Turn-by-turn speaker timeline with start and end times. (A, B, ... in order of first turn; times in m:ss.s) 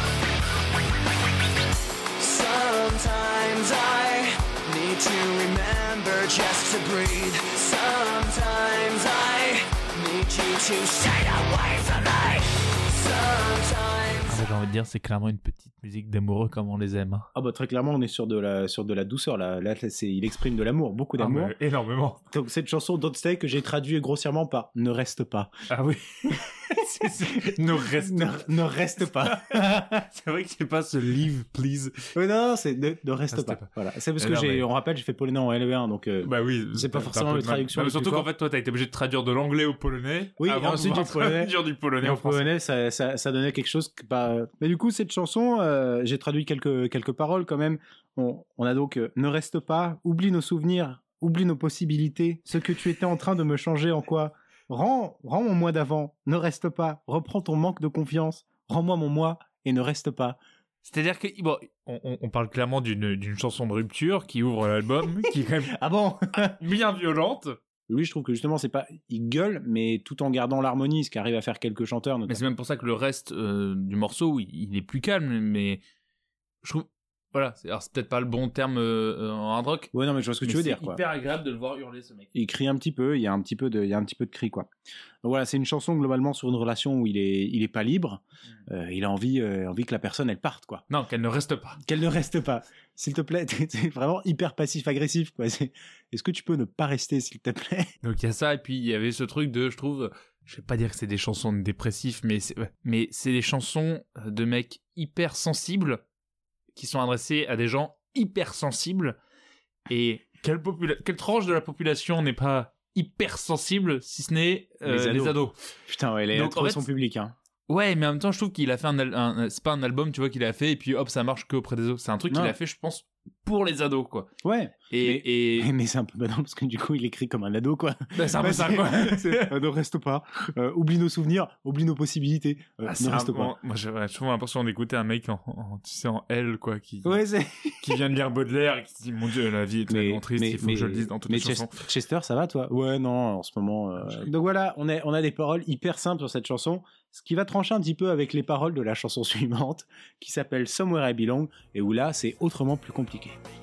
0:02.2-0:14.5 A
0:14.3-0:17.3 B
0:17.4-0:21.6 C
0:21.2-0:22.2 B
0:22.3-0:25.5 C
0:25.7-0:28.5 B
0:27.0-0:30.1 C
0:29.2-0:32.1 B
0:32.2-0:38.3 C
0:33.3-0:34.6 B
0:36.2-0:42.5 B
0:40.4-1:00.4 C
1:00.8-1:05.7 B
1:05.7-1:06.6 C
1:06.5-1:07.6 B
1:07.9-1:12.4 C
1:12.3-1:15.8 B
1:16.6-1:19.9 B
1:19.9-1:21.0 C
1:20.5-1:22.3 B
1:22.3-1:24.7 C
1:25.2-1:30.8 C
1:30.9-1:31.8 B
1:31.8-1:37.9 C
1:38.0-1:46.0 B
1:46.7-1:49.2 B
1:49.9-1:55.7 B
1:54.8-1:57.4 C
1:56.3-1:56.8 B
1:57.7-2:04.3 B
2:02.3-2:02.6 C
2:04.4-2:13.5 C
2:04.9-2:05.7 B
2:08.2-2:09.5 B
2:12.8-2:17.2 B
2:17.0-2:17.9 C
2:17.8-2:21.8 B
2:19.9-2:33.4 C